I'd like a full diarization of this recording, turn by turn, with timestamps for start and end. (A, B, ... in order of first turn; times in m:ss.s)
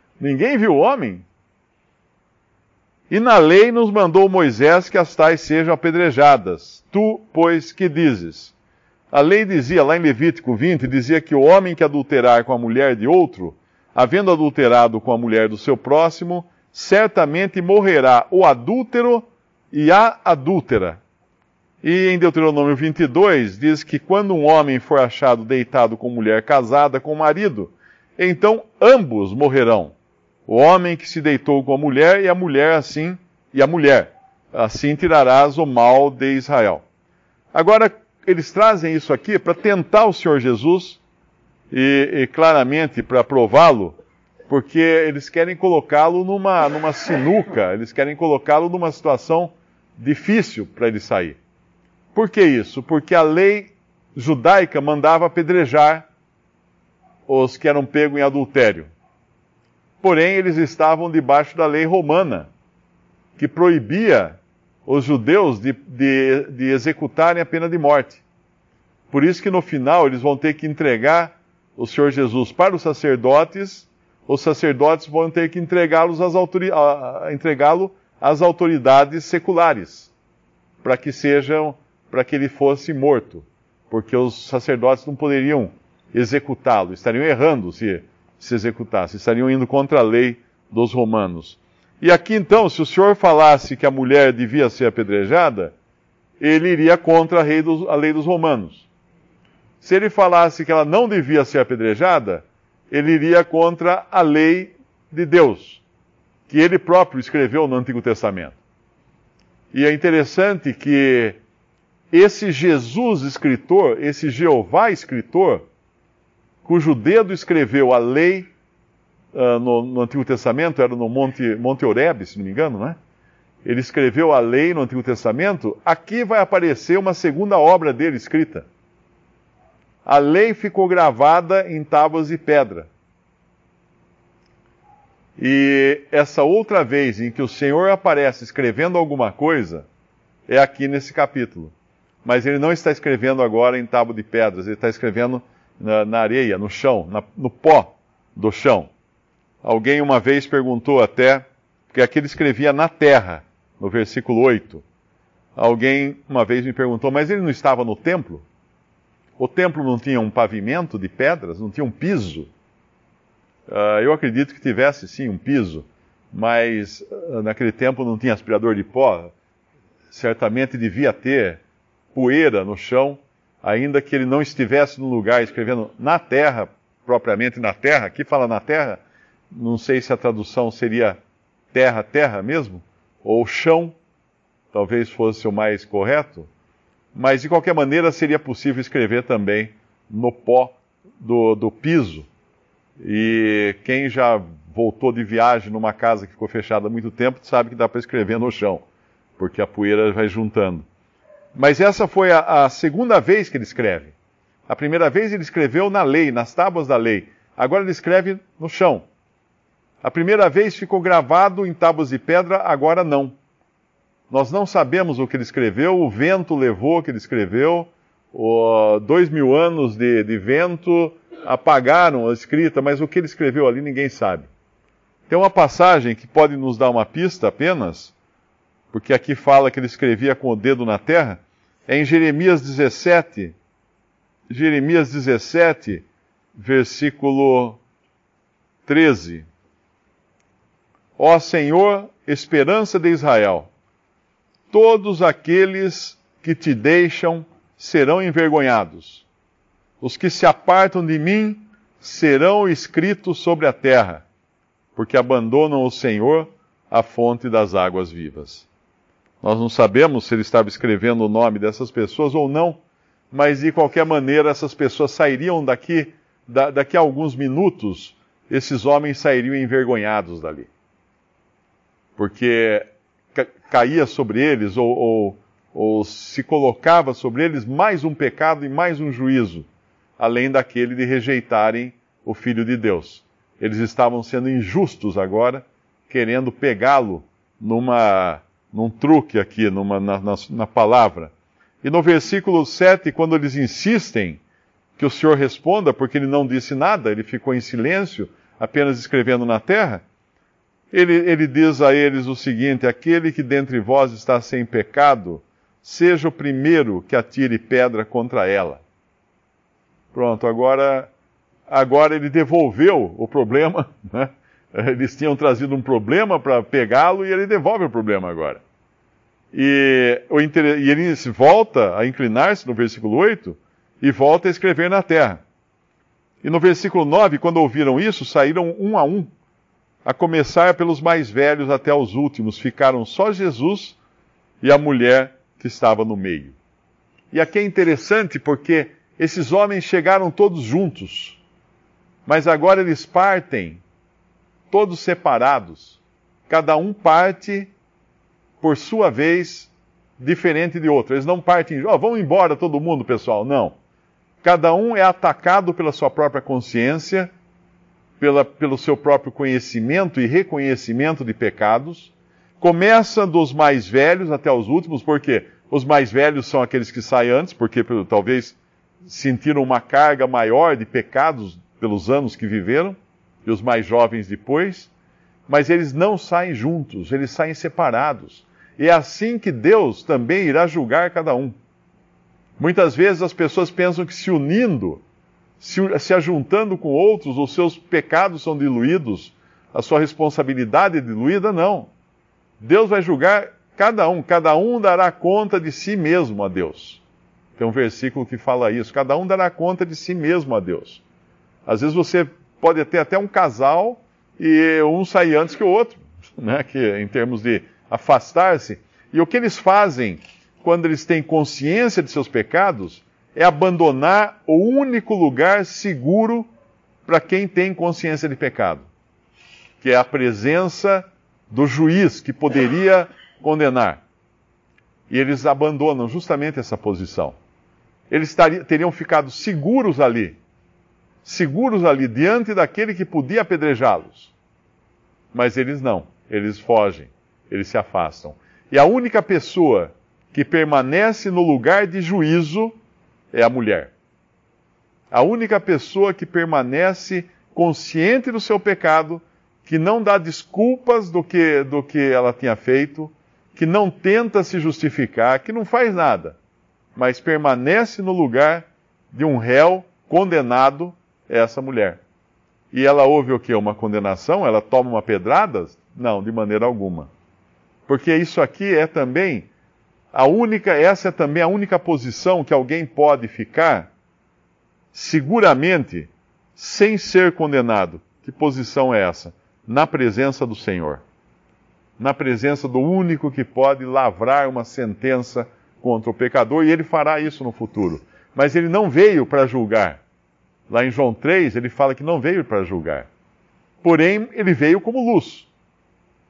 0:00.2-0:01.2 A
0:03.1-0:08.5 A
0:09.1-0:21.0 A
0:21.8-0:30.0 A
0:30.5-0:36.8 A
0:37.5-0:41.0 A
0:41.7-0:44.0 A
0:44.5-0:51.4 A
0:52.1-0:56.0 A
0:57.3-0:58.9 A
1:00.0-1:02.5 A
1:03.4-1:08.2 A
1:09.1-1:20.1 A
1:20.8-1:35.7 A
1:36.4-1:38.9 A
1:39.8-1:45.8 A
1:46.5-1:48.6 A
1:49.7-1:51.4 A
1:52.1-1:55.6 A
1:56.6-1:58.5 A
1:59.3-2:03.0 A
2:03.6-2:08.7 A
2:10.0-2:12.9 A
2:15.4-2:19.9 A
2:20.5-2:21.7 A
2:22.2-2:28.9 A
2:29.6-2:34.8 A
2:35.6-2:38.4 A
2:39.4-2:42.5 A
2:43.7-2:49.3 A
2:50.1-2:51.6 A
2:52.1-3:01.2 A
3:01.7-3:04.0 A
3:04.7-3:06.5 A
3:07.2-3:12.3 A
3:13.0-3:18.8 A
3:19.4-3:20.8 A
3:21.6-3:24.1 A
3:24.7-3:29.0 A
3:30.0-3:33.4 A
3:34.3-3:44.5 A
3:45.3-3:48.1 A
3:48.9-3:53.6 A
3:54.5-3:57.8 A
3:58.8-3:59.5 A
4:01.2-4:03.7 A
4:04.7-4:09.3 A
4:10.0-4:14.2 A
4:15.0-4:18.7 A
4:19.4-4:22.8 A
4:23.3-4:30.7 A
4:32.2-4:39.7 A
4:40.2-4:54.4 A
4:55.0-5:00.0 A
5:00.9-5:08.8 A
5:10.1-5:11.1 A
5:11.7-5:18.6 A
5:19.5-5:25.4 A
5:26.4-5:29.3 A
5:30.0-5:34.0 A
5:34.6-5:36.6 A
5:37.3-5:41.4 A
5:42.3-5:43.8 A
5:44.7-5:47.7 A
5:48.6-5:53.8 A
5:54.4-5:57.3 A
5:58.2-6:14.9 A
6:15.5-6:21.6 A
6:22.6-6:25.0 A
6:25.6-6:31.9 A
6:32.6-6:37.0 A
6:37.6-6:41.0 A
6:41.7-6:56.5 A
6:57.1-6:58.9 A
6:59.8-7:04.0 A
7:05.1-7:07.4 A
7:08.1-7:10.4 A
7:11.2-7:14.3 A
7:15.3-7:22.8 A
7:23.3-7:23.9 A
7:25.1-7:36.4 A
7:37.0-7:42.0 A
7:42.7-7:47.1 A
7:47.9-7:49.5 A
7:50.1-7:53.9 A
7:54.9-8:01.0 A
8:02.0-8:10.0 A
8:10.7-8:13.1 A
8:13.8-8:15.5 A